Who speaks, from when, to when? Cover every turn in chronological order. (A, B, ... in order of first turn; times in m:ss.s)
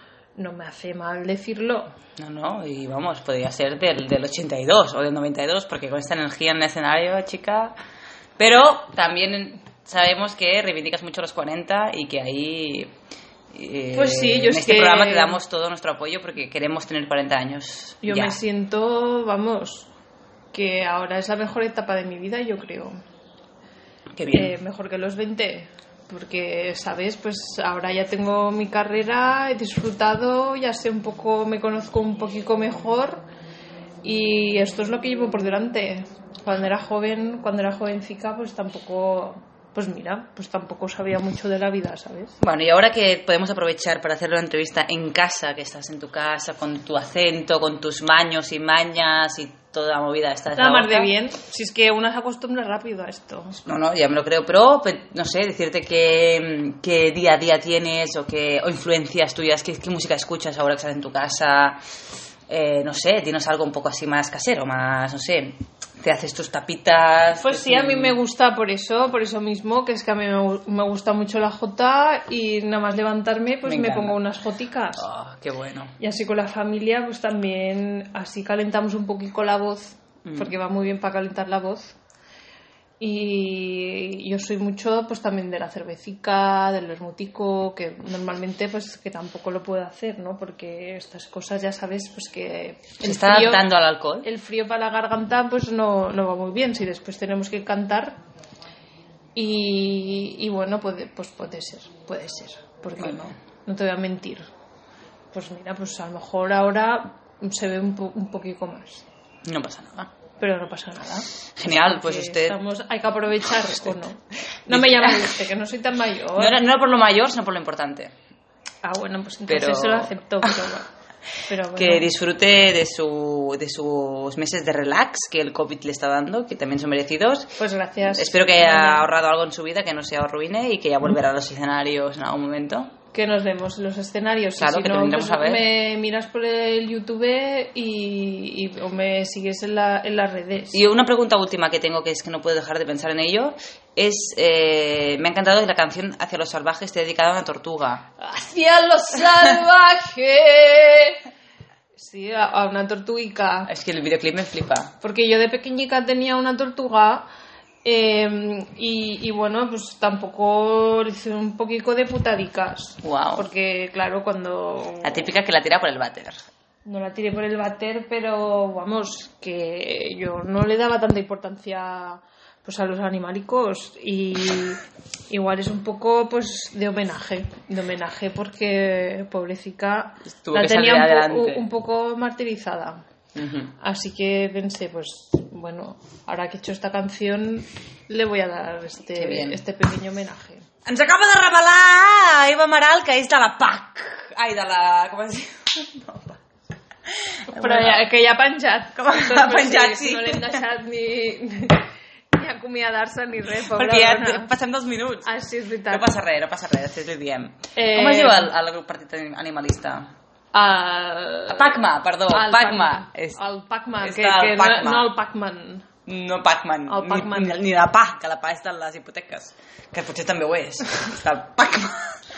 0:00.4-0:01.9 A
0:02.2-0:07.7 B
0:08.4-0:12.9 B
0:13.5-0:18.4 B
0:13.9-0:15.4 A
0:18.0-0:19.9 A
0:20.5-0:22.9 A
0:24.2-0:24.5 B
0:24.3-0:33.2 A
0:34.0-0:42.3 A
0:42.4-0:51.1 B
0:50.5-0:53.6 A
0:53.6-1:01.8 B
1:02.5-1:08.2 B
1:07.4-1:15.0 A
1:13.6-1:14.2 B
1:15.0-1:15.9 B
1:16.0-1:22.0 A
1:20.2-1:20.5 B
1:23.0-1:33.7 A
1:33.0-1:34.3 B
1:34.2-1:38.2 A
1:39.3-1:44.5 A
1:45.3-1:49.0 A
1:49.4-1:50.1 B
1:50.4-1:56.6 A
1:51.6-1:52.6 B
1:54.7-1:55.4 B
1:56.4-1:58.1 B
1:58.8-2:00.9 A
1:59.5-2:00.6 B
2:01.5-2:02.1 A
2:01.8-2:07.5 B
2:07.6-2:09.1 A
2:08.1-2:12.9 B
2:13.1-2:20.8 A
2:14.6-2:15.7 B
2:20.7-2:28.0 B
2:28.2-2:31.2 A
2:32.0-2:33.7 A
2:33.7-2:34.9 B
2:35.0-2:37.3 A
2:37.8-2:45.3 A
2:43.0-2:43.5 B
2:45.0-2:46.4 B
2:46.8-3:03.0 A
3:00.4-3:01.6 B
3:03.3-3:03.7 B
3:03.8-3:10.6 A
3:09.1-3:09.6 B
3:10.8-3:16.4 B
3:17.1-3:18.0 B
3:17.5-3:24.5 A
3:19.0-3:20.6 B
3:23.6-3:25.3 B
3:25.2-3:26.1 A
3:25.9-3:30.1 B
3:27.7-3:28.5 A
3:30.5-3:35.8 A
3:31.5-3:33.4 B
3:34.0-3:35.1 B
3:36.0-3:42.2 B
3:36.9-3:37.6 A